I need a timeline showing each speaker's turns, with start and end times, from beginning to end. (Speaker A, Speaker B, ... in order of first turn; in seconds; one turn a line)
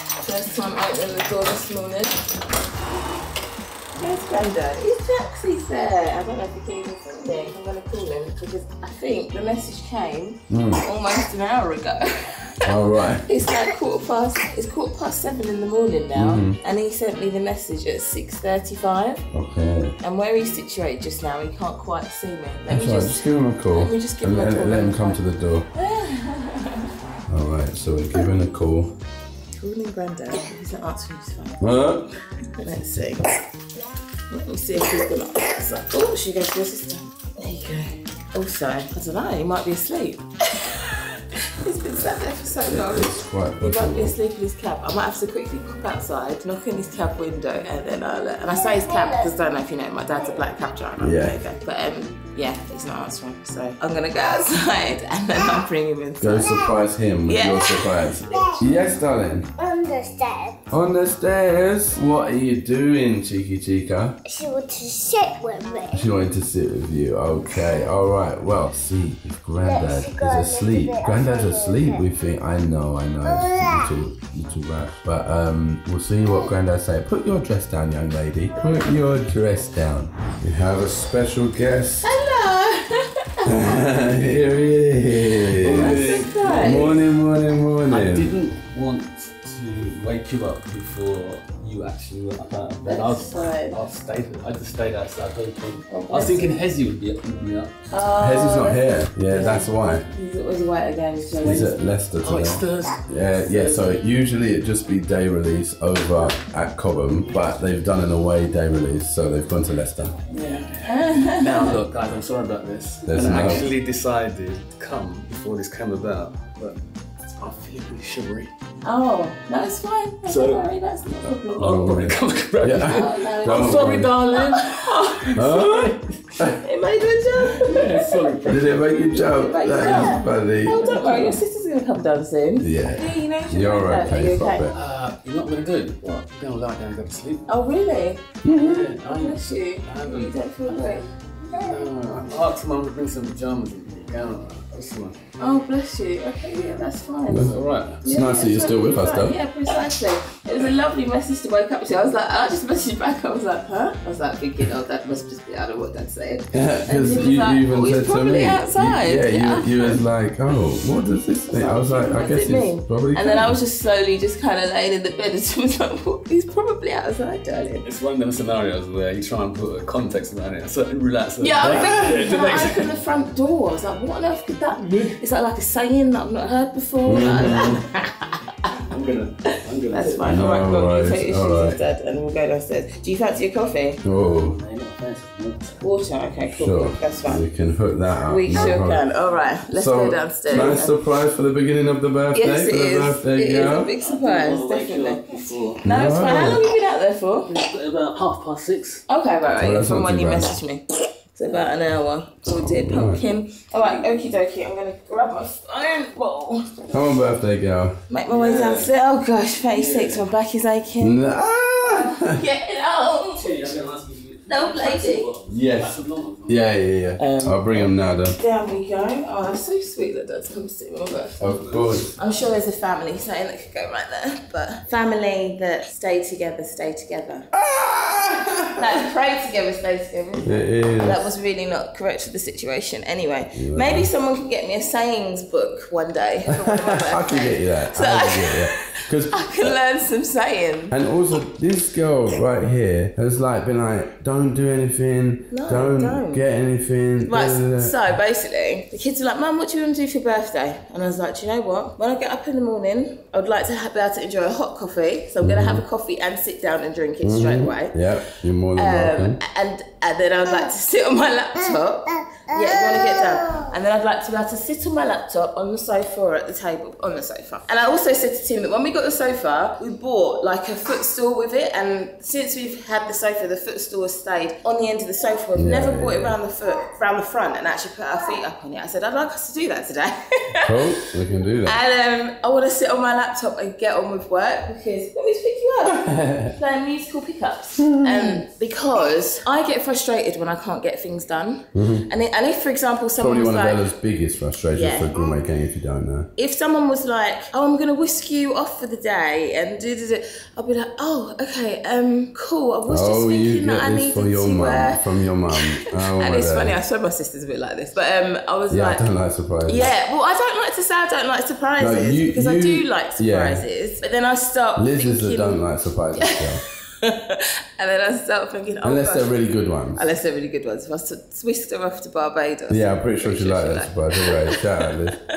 Speaker A: 0.2-2.3
Speaker A: 4.0-19.2
Speaker B: 10.5-10.8
Speaker B: 12.7-13.3
Speaker B: 16.1-16.6
Speaker B: 19.3-19.9
Speaker A: 20.0-25.2
Speaker B: 22.7-25.7
Speaker A: 25.8-26.9
Speaker B: 27.3-28.9
Speaker A: 29.6-31.8
Speaker B: 31.6-32.1
Speaker A: 32.4-33.3
Speaker A: 34.3-56.7
Speaker B: 42.6-44.2
Speaker C: 48.4-49.4
Speaker C: 50.1-50.5
Speaker B: 51.0-51.4
Speaker B: 56.2-59.5
Speaker A: 57.3-57.9
Speaker C: 58.3-58.6
Speaker C: 59.6-60.6
Speaker B: 60.7-64.2
Speaker C: 64.3-66.1
Speaker B: 65.9-82.2
Speaker C: 69.6-72.0
Speaker C: 73.2-73.9
Speaker A: 82.0-83.6
Speaker B: 83.4-88.4
Speaker D: 83.9-84.5
Speaker D: 85.6-86.8
Speaker A: 85.6-87.0
Speaker D: 87.9-97.7
Speaker A: 92.8-93.8
Speaker A: 95.9-96.5
Speaker A: 97.9-101.7
Speaker B: 98.2-100.0
Speaker D: 99.3-99.6
Speaker B: 101.4-110.2
Speaker D: 102.2-104.0
Speaker A: 110.3-111.8
Speaker D: 110.3-118.8
Speaker B: 113.1-113.7
Speaker A: 118.8-122.0
Speaker D: 120.3-120.7
Speaker B: 121.5-124.1
Speaker D: 121.6-125.3
Speaker A: 122.8-128.6
Speaker B: 125.3-126.6
Speaker D: 127.4-128.8
Speaker B: 128.5-131.4
Speaker A: 129.1-134.7
Speaker D: 129.7-130.1
Speaker D: 131.0-131.3
Speaker B: 132.6-134.8
Speaker D: 134.7-137.5
Speaker A: 137.5-138.2
Speaker B: 138.4-138.8
Speaker D: 138.5-145.2
Speaker A: 139.1-141.1
Speaker C: 141.4-141.9
Speaker A: 145.4-160.0
Speaker B: 147.3-149.4
Speaker D: 147.4-148.0
Speaker B: 156.5-163.6
Speaker A: 161.5-167.8
Speaker D: 167.8-172.9
Speaker A: 171.4-178.4
Speaker B: 171.6-172.4
Speaker D: 174.8-175.2
Speaker B: 177.1-177.8
Speaker D: 177.2-177.8
Speaker D: 178.9-180.7
Speaker A: 179.5-184.0
Speaker B: 180.2-181.8
Speaker B: 184.0-184.6
Speaker D: 184.3-186.1
Speaker A: 185.8-187.4
Speaker B: 186.4-189.0
Speaker A: 188.3-190.9
Speaker B: 189.7-193.9
Speaker D: 190.5-190.8
Speaker A: 192.3-197.5
Speaker D: 194.0-196.5
Speaker B: 195.8-196.6
Speaker D: 197.5-199.0
Speaker A: 199.1-206.9
Speaker B: 199.6-200.6
Speaker B: 202.5-203.2
Speaker B: 206.9-208.0
Speaker A: 208.1-211.2
Speaker D: 208.3-208.9
Speaker D: 209.7-210.3
Speaker B: 211.0-212.4
Speaker A: 211.9-213.5
Speaker D: 213.4-216.7
Speaker A: 214.5-215.3
Speaker B: 215.5-218.4
Speaker A: 217.2-221.5
Speaker B: 221.4-222.1
Speaker A: 222.2-227.5
Speaker B: 227.5-228.8
Speaker A: 228.8-241.0
Speaker B: 230.4-231.3
Speaker B: 233.5-234.1
Speaker B: 236.5-239.8
Speaker B: 240.9-248.0
Speaker A: 245.5-246.4
Speaker A: 247.2-258.0
Speaker B: 255.4-255.8
Speaker B: 257.2-259.4
Speaker A: 258.8-280.8
Speaker C: 262.9-263.6
Speaker B: 275.6-276.4
Speaker B: 280.6-281.8
Speaker A: 281.6-293.9
Speaker B: 285.9-286.6
Speaker B: 287.8-288.4
Speaker B: 291.7-292.1
Speaker B: 293.2-296.3
Speaker A: 294.7-295.2
Speaker A: 296.4-309.1
Speaker B: 302.9-306.8
Speaker B: 308.7-309.9
Speaker A: 309.7-315.6
Speaker B: 311.8-313.6
Speaker B: 314.8-316.6
Speaker A: 316.2-316.4
Speaker A: 317.0-319.4
Speaker B: 318.8-320.0
Speaker A: 319.9-324.9
Speaker B: 322.7-325.2